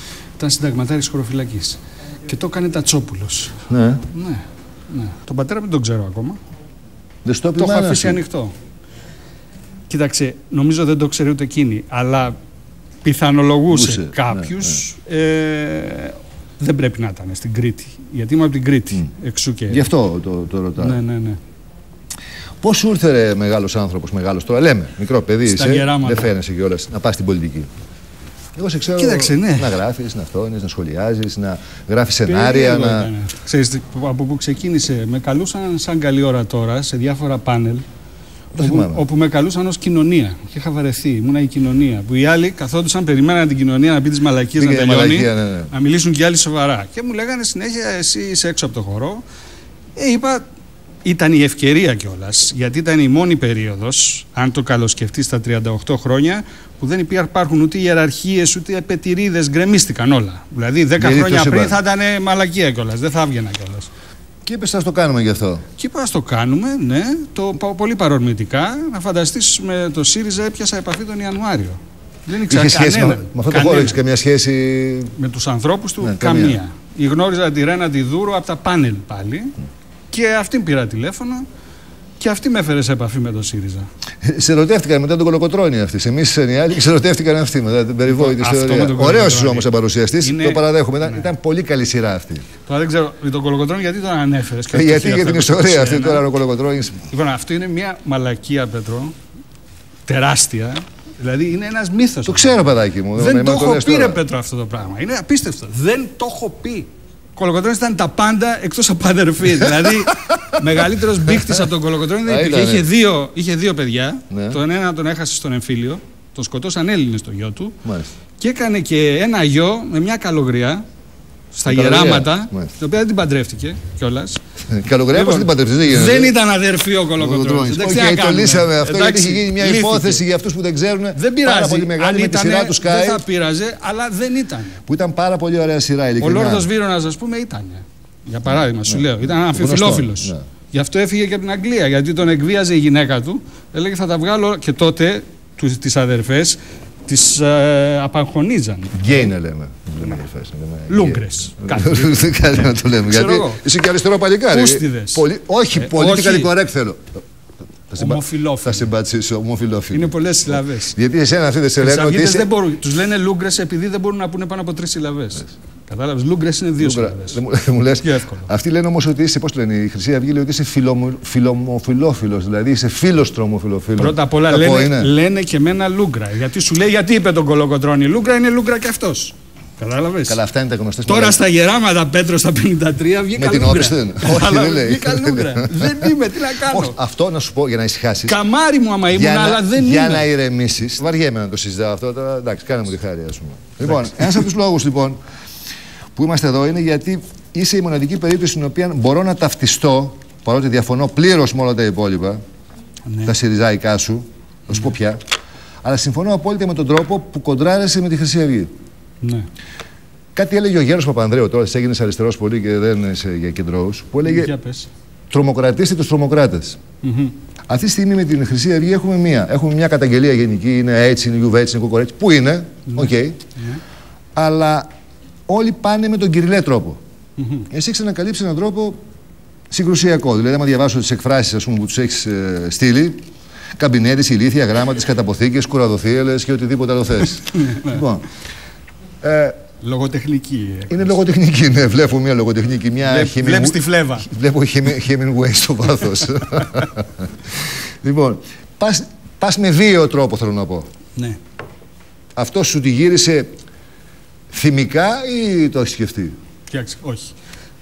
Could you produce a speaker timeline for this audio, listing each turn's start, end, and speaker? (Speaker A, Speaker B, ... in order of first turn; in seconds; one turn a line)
Speaker A: 0.4-6.4
Speaker B: 3.7-4.0
Speaker B: 7.2-8.2
Speaker A: 7.6-8.5
Speaker A: 9.9-12.3
Speaker A: 13.0-19.8
Speaker B: 13.7-14.8
Speaker B: 19.7-21.0
Speaker A: 20.8-21.4
Speaker B: 22.6-27.7
Speaker A: 25.4-26.3
Speaker B: 28.5-33.1
Speaker A: 28.9-29.8
Speaker A: 32.2-37.8
Speaker B: 38.5-39.0
Speaker A: 38.6-49.2
Speaker B: 44.6-45.7
Speaker A: 50.0-50.4
Speaker A: 51.0-63.9
Speaker B: 61.0-61.8
Speaker B: 64.4-65.6
Speaker A: 65.8-74.0
Speaker B: 72.5-75.1
Speaker A: 75.2-79.5
Speaker B: 76.0-76.6
Speaker A: 80.1-81.5
Speaker A: 82.2-83.9
Speaker B: 84.2-92.4
Speaker A: 88.1-91.3
Speaker A: 92.7-96.2
Speaker B: 94.7-97.1
Speaker A: 97.1-99.1
Speaker A: 100.1-117.8
Speaker B: 102.2-104.2
Speaker B: 109.6-111.5
Speaker B: 112.2-112.9
Speaker B: 114.3-114.6
Speaker B: 117.8-118.1
Speaker A: 118.4-120.8
Speaker A: 121.5-124.4
Speaker B: 121.7-122.7
Speaker B: 124.7-126.3
Speaker A: 125.1-130.2
Speaker B: 127.2-133.2
Speaker A: 131.1-134.8
Speaker B: 134.8-136.7
Speaker A: 136.2-149.3
Speaker B: 138.9-140.4
Speaker B: 148.9-157.2
Speaker A: 150.9-153.6
Speaker A: 154.5-156.5
Speaker B: 157.9-162.5
Speaker A: 158.0-158.9
Speaker A: 159.9-161.0
Speaker A: 161.8-167.4
Speaker B: 166.8-175.1
Speaker A: 168.0-168.5
Speaker A: 174.0-180.4
Speaker B: 180.3-181.4
Speaker A: 181.1-187.0
Speaker B: 183.3-188.4
Speaker A: 188.2-190.2
Speaker B: 189.1-195.2
Speaker A: 193.9-194.4
Speaker B: 196.1-202.4
Speaker A: 203.1-203.3
Speaker B: 203.2-205.2
Speaker B: 205.8-208.7
Speaker A: 209.2-209.5
Speaker B: 210.3-214.5
Speaker A: 214.2-214.9
Speaker B: 215.3-216.8
Speaker A: 217.0-217.3
Speaker B: 217.7-223.4
Speaker A: 222.9-223.8
Speaker B: 224.3-224.9
Speaker B: 225.5-227.0
Speaker A: 227.4-227.7
Speaker B: 227.7-229.0
Speaker B: 229.7-233.2
Speaker B: 233.8-238.2
Speaker A: 237.5-238.0
Speaker B: 239.2-239.6
Speaker A: 239.8-241.2
Speaker B: 240.9-250.8
Speaker A: 243.0-244.3
Speaker B: 252.3-253.5
Speaker B: 254.5-256.3
Speaker A: 256.7-257.3